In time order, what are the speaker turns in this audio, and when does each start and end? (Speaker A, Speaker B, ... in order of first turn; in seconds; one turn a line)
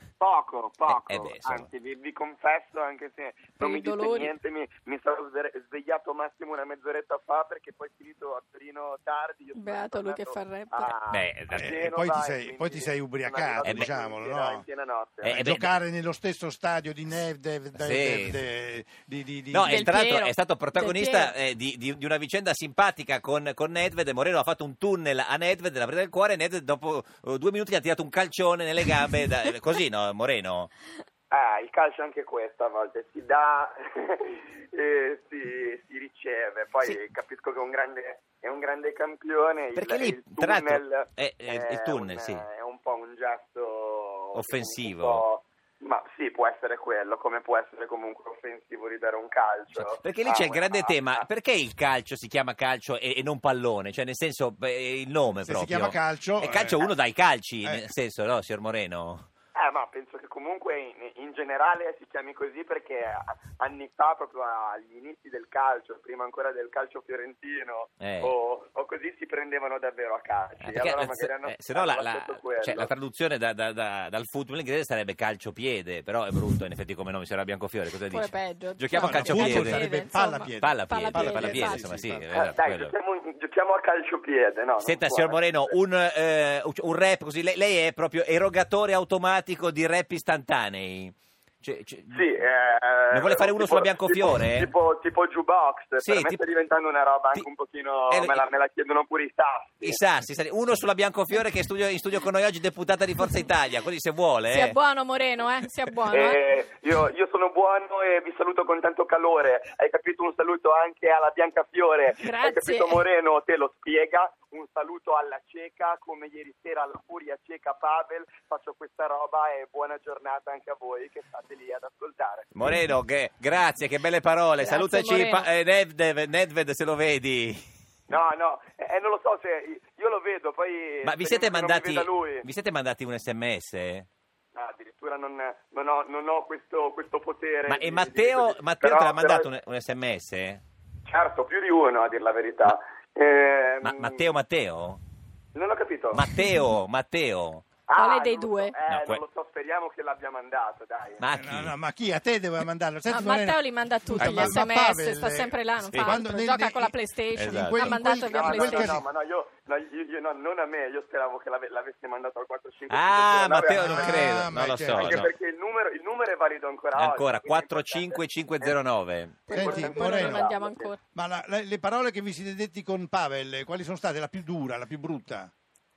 Speaker A: 0.2-15.4
Speaker B: 0.9-1.7
Speaker C: 3.6-4.3
Speaker C: 9.5-10.9
Speaker B: 11.1-11.7
Speaker D: 11.5-14.6
Speaker B: 15.2-15.7
Speaker D: 15.3-19.9
Speaker B: 17.7-18.4
Speaker B: 19.5-30.7
Speaker C: 19.7-21.3
Speaker A: 31.3-51.2
Speaker B: 39.7-42.4
Speaker B: 44.3-45.2
Speaker B: 49.7-59.3
Speaker D: 55.5-56.8
Speaker A: 59.5-72.9
Speaker B: 68.0-68.3
Speaker B: 70.6-79.9
Speaker C: 78.1-82.0
Speaker D: 78.9-82.5
Speaker B: 80.6-82.9
Speaker A: 82.3-85.7
Speaker B: 84.8-92.3
Speaker A: 92.1-100.0
Speaker B: 93.1-94.7
Speaker B: 96.0-96.4
Speaker B: 98.1-98.4
Speaker B: 99.8-104.8
Speaker C: 104.5-106.4
Speaker A: 106.1-122.5
Speaker C: 112.2-113.0
Speaker B: 122.5-127.6
Speaker C: 124.6-125.5
Speaker A: 128.1-132.5
Speaker B: 131.0-134.1
Speaker A: 134.5-139.5
Speaker B: 137.7-140.6
Speaker A: 141.1-144.3
Speaker B: 143.8-145.0
Speaker A: 145.5-146.3
Speaker B: 146.1-147.6
Speaker A: 147.9-151.2
Speaker C: 147.9-148.7
Speaker B: 148.9-149.2
Speaker B: 151.2-151.7
Speaker D: 151.4-159.0
Speaker C: 153.1-159.0
Speaker B: 154.2-154.6
Speaker B: 155.9-156.2
Speaker B: 157.4-158.0
Speaker A: 158.1-168.8
Speaker B: 162.9-165.3
Speaker D: 163.7-165.2
Speaker B: 166.9-169.4
Speaker C: 169.5-171.0
Speaker A: 169.5-170.9
Speaker D: 169.5-170.5
Speaker D: 171.1-175.5